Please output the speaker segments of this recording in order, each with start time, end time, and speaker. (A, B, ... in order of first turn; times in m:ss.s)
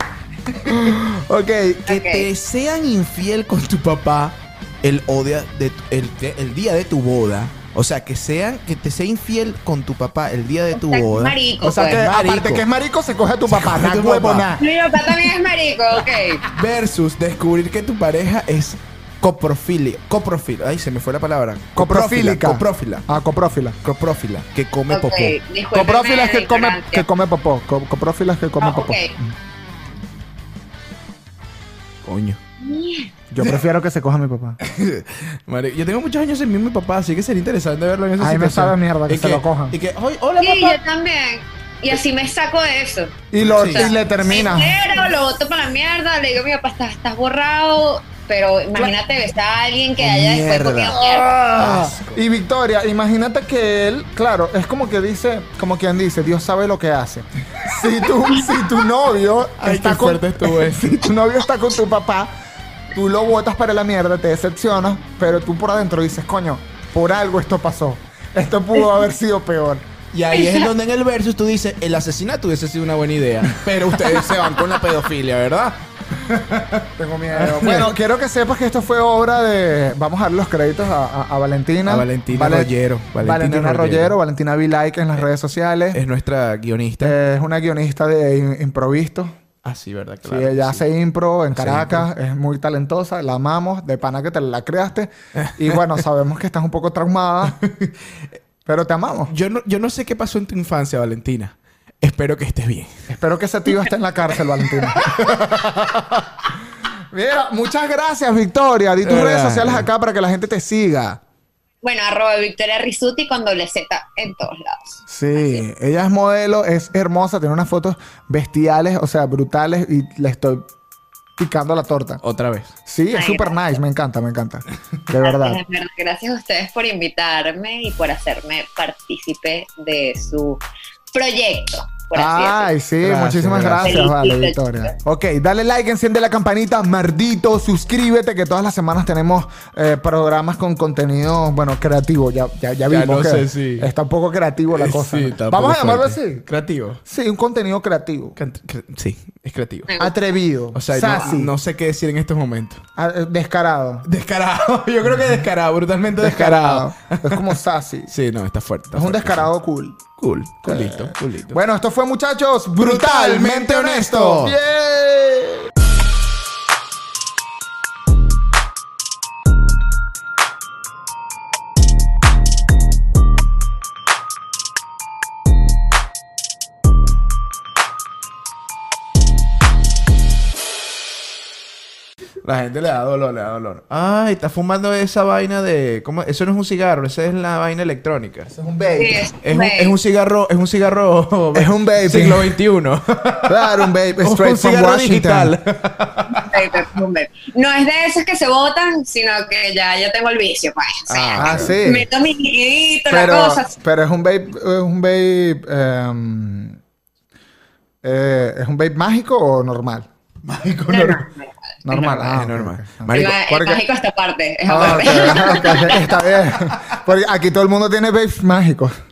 0:00.6-0:01.9 A
0:01.9-0:02.3 B
0:01.9-0:12.6 C
0:10.7-0:12.0 B
0:11.6-0:14.6 A
0:13.5-0:14.5 C
0:14.6-0:16.4 B
0:16.5-0:23.0 C
0:21.8-0:23.8 A
0:23.8-0:25.4 C
0:24.9-0:27.0 B
0:25.7-0:29.3 A
0:28.6-0:29.1 B
0:32.0-0:32.4 C
0:32.6-0:33.1 B
0:33.3-0:34.6 A
0:34.6-0:40.8 C
0:38.2-0:39.8 A
0:40.4-0:51.3 B
0:43.3-0:44.9 A
0:43.4-0:43.9 C
0:50.0-0:52.2 C
0:50.9-1:02.3 A
0:59.6-1:00.9 C
1:02.9-1:09.8 A
1:10.1-1:17.9 C
1:10.3-1:10.7 B
1:17.0-1:26.0 A
1:21.9-1:24.1 C
1:25.9-1:27.2 C
1:27.0-1:29.4 A
1:29.6-1:30.9 C
1:30.2-1:37.6 A
1:31.5-1:32.1 C
1:35.4-1:35.9 C
1:37.6-1:37.9 C
1:38.6-1:39.3 A
1:39.3-1:43.0 C
1:43.1-1:46.3 A
1:47.1-1:51.2 A
1:49.0-1:49.9 C
1:51.8-1:55.6 B
1:55.1-2:00.7 A
2:01.4-2:02.2 A
2:02.2-2:02.7 C
2:02.9-2:05.6 A
2:03.1-2:03.7 B
2:05.2-2:10.6 B
2:11.1-2:12.7 B
2:12.1-2:26.4 A
2:13.0-2:14.0 C
2:13.8-2:14.9 B
2:22.9-2:23.9 C
2:24.7-2:27.0 C
2:27.0-2:28.4 A
2:28.4-2:29.9 C
2:29.9-2:30.1 B
2:30.0-2:31.5 A
2:30.7-2:32.8 C
2:33.0-2:34.1 A
2:34.0-2:37.5 C
2:36.2-2:38.1 A
2:38.1-2:39.5 C
2:38.9-2:40.0 A
2:40.2-2:41.6 C
2:40.6-2:45.7 A
2:42.8-2:44.6 C
3:02.4-3:08.5 C
3:08.5-3:09.3 A
3:09.0-3:09.9 B
3:09.4-3:16.8 C
3:11.5-3:12.5 A
3:13.4-3:15.5 A
3:16.3-3:23.7 B
3:21.1-3:21.8 C
3:21.4-3:22.1 A
3:23.1-3:26.8 A
3:28.0-3:30.1 A
3:30.4-3:31.2 C
3:30.9-3:31.8 B
3:31.8-3:33.8 A
3:31.9-3:33.4 C
3:33.1-3:36.1 B
3:34.7-3:38.9 A
3:34.8-3:37.0 C